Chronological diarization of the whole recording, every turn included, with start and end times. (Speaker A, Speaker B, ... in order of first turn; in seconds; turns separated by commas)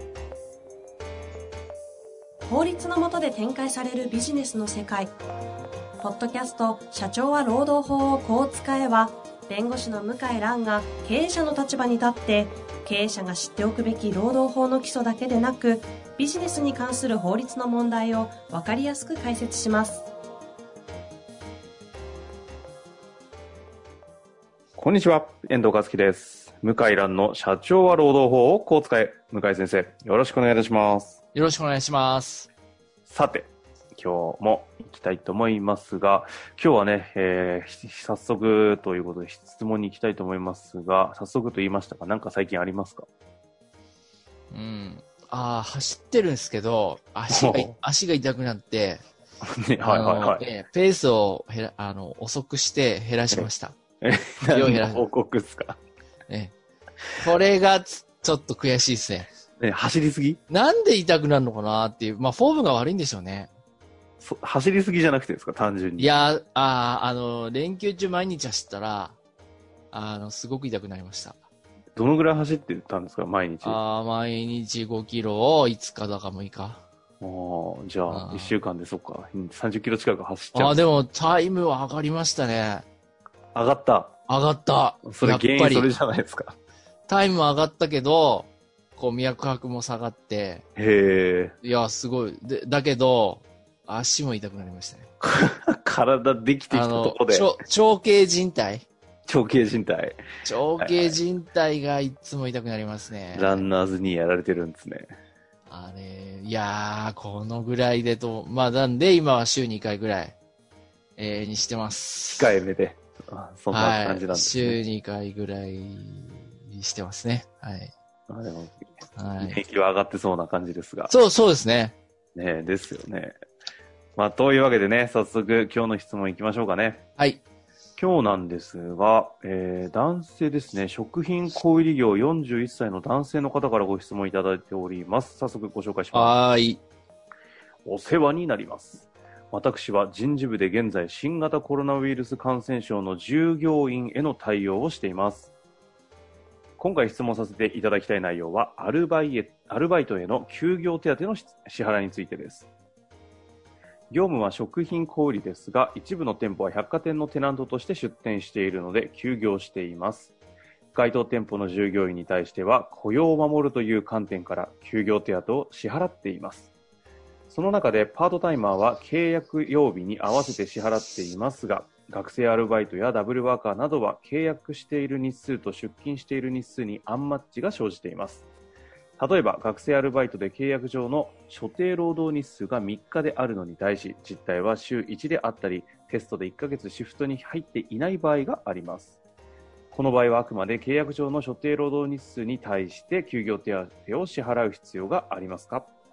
Speaker A: 2.4-5.1, Speaker A: 6.0-20.1, Speaker B: 24.8-31.2, Speaker C: 31.3-32.5, Speaker B: 33.0-43.0, Speaker C: 44.5-49.0, Speaker B: 47.3-47.7, Speaker B: 49.5-50.5, Speaker C: 49.8-53.8, Speaker B: 54.0-55.8, Speaker C: 54.5-55.1, Speaker C: 56.3-56.5, Speaker C: 57.2-59.3, Speaker B: 59.6-60.4, Speaker C: 60.5-63.5, Speaker B: 64.2-66.1, Speaker C: 66.0-69.2, Speaker C: 69.9-71.4, Speaker B: 72.0-73.8, Speaker C: 73.6-76.8, Speaker B: 77.2-80.8, Speaker C: 78.1-78.5, Speaker C: 80.5-82.8, Speaker B: 83.5-84.2, Speaker C: 84.3-85.9, Speaker B: 85.0-86.6, Speaker C: 87.1-90.7, Speaker B: 90.8-91.5, Speaker C: 91.6-95.1, Speaker B: 95.2-97.5, Speaker C: 96.7-98.8, Speaker B: 99.3-100.2, Speaker C: 100.4-103.7, Speaker B: 100.8-101.2, Speaker B: 103.3-105.1, Speaker C: 105.7-110.3, Speaker C: 111.2-112.5, Speaker B: 112.4-114.8, Speaker C: 113.7-117.9, Speaker B: 118.3-121.1, Speaker C: 119.2-119.6, Speaker C: 121.1-122.0, Speaker B: 122.3-123.4, Speaker B: 124.2-127.0, Speaker C: 127.2-127.4, Speaker B: 128.0-136.4, Speaker C: 136.1-136.8, Speaker B: 137.8-145.5, Speaker B: 146.8-152.7, Speaker B: 154.1-160.3, Speaker B: 160.9-166.7, Speaker B: 167.5-178.4, Speaker B: 179.2-189.2, Speaker B: 189.9-195.9